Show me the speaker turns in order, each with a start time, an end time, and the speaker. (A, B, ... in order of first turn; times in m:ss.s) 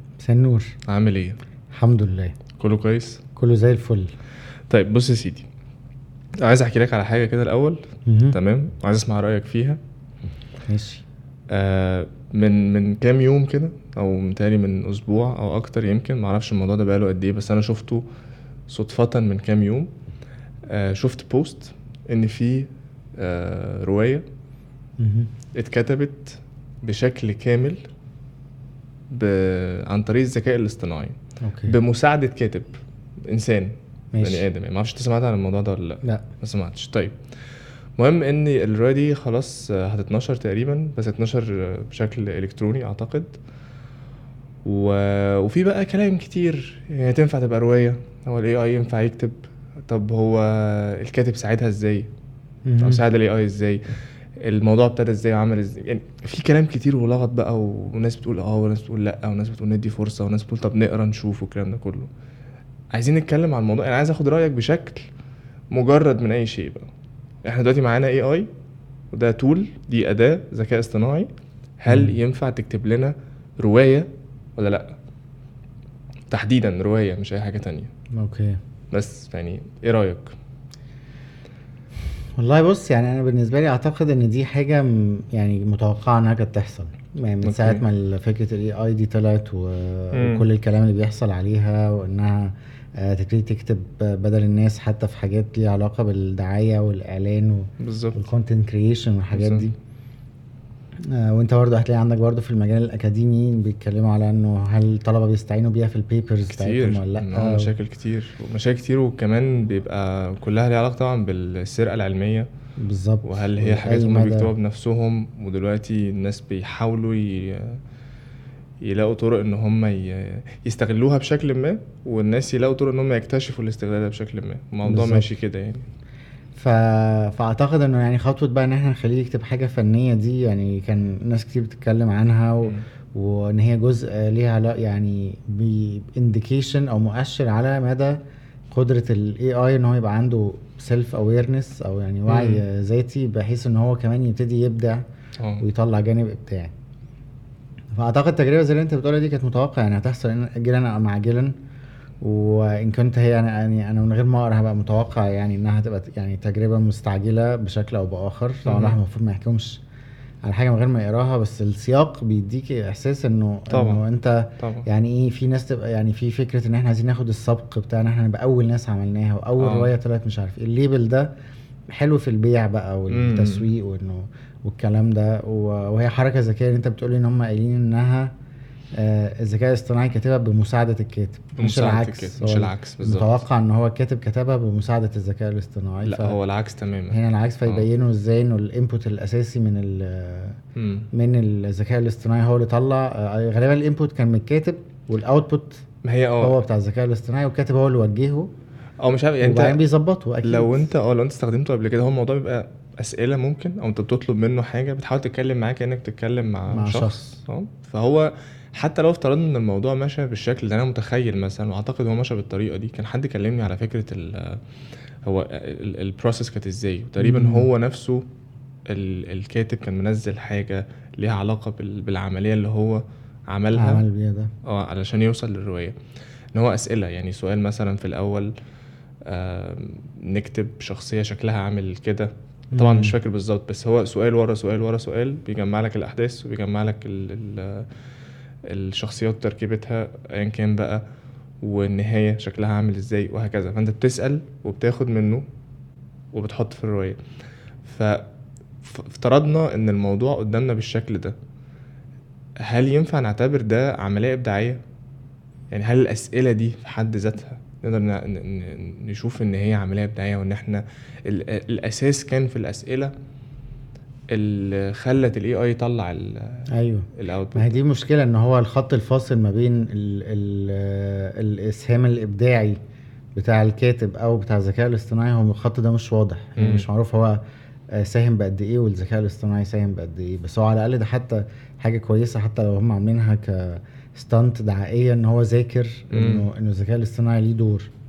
0:00.2-0:00.7 A
0:00.9-0:01.4 B
0:01.7-0:02.3 A
0:02.6-0:03.2 B
0:03.4-0:04.1 A
0:04.7-0:05.5 B
0:06.4-0:07.8 B
0:08.1-0:08.4 A
0:08.3-0:09.8 B
0:10.6-0:11.0 A
0:11.5-0:18.0 B
0:18.7-0:19.9 B
0:20.7-0:24.2 B
0:25.0-0:25.3 A
0:25.5-0:27.8 B
0:29.1-0:32.7 B
0:31.4-0:31.7 A
0:33.3-0:37.2 B
0:34.1-0:34.5 A
0:38.0-0:43.4 B
0:44.6-0:52.1 B
0:52.6-0:53.0 A
0:52.8-0:53.8 B
0:54.4-1:02.1 B
1:02.9-1:05.0 B
1:05.7-1:06.9 B
1:07.4-1:08.5 B
1:09.1-1:15.0 B
1:11.9-1:12.2 A
1:16.3-1:17.9 B
1:18.2-1:18.6 A
1:18.9-1:20.3 B
1:22.4-1:39.7 A
1:27.4-1:27.8 B
1:30.1-1:30.5 B
1:37.8-1:38.3 B
1:39.3-1:39.7 B
1:41.1-1:47.7 A
1:46.5-1:52.5 B
1:52.8-1:54.5 A
1:53.2-1:57.8 B
1:58.8-2:05.8 B
2:04.8-2:05.4 A
2:06.5-2:18.2 A
2:18.7-2:25.0 A
2:22.3-2:22.6 B
2:25.4-2:25.6 B
2:25.6-2:26.7 A
2:27.9-2:31.5 A
2:32.2-2:39.8 A
2:38.6-2:39.0 B
2:40.4-2:51.3 A
2:43.7-2:44.0 B
2:44.6-2:44.8 B
2:49.6-2:49.9 B
2:51.9-2:58.3 A
2:53.1-2:53.7 B
2:59.0-3:06.4 A
3:01.6-3:03.4 B
3:06.0-3:07.9 B
3:07.1-3:10.6 A
3:10.8-3:11.1 B
3:11.1-3:15.8 A
3:16.0-3:16.6 B
3:16.4-3:18.5 A
3:19.0-3:19.8 B
3:19.4-3:20.9 A
3:20.4-3:34.6 B
3:26.7-3:27.4 A
3:35.2-3:38.2 B
3:37.2-3:37.7 A
3:38.9-3:44.0 B
3:43.7-3:44.5 A
3:44.6-3:45.9 B
3:46.5-3:48.5 B
3:49.2-3:57.9 B
3:52.7-3:53.2 A
3:58.7-4:01.0 B
4:01.6-4:05.4 B
4:06.3-4:07.2 B
4:07.8-4:08.2 B
4:08.8-4:11.4 B
4:12.6-4:14.8 B
4:15.7-4:23.1 B
4:24.3-4:27.8 B
4:26.7-4:32.8 A
4:33.4-4:37.4 A
4:36.6-4:36.9 B
4:37.9-4:47.9 A
4:46.1-4:46.5 B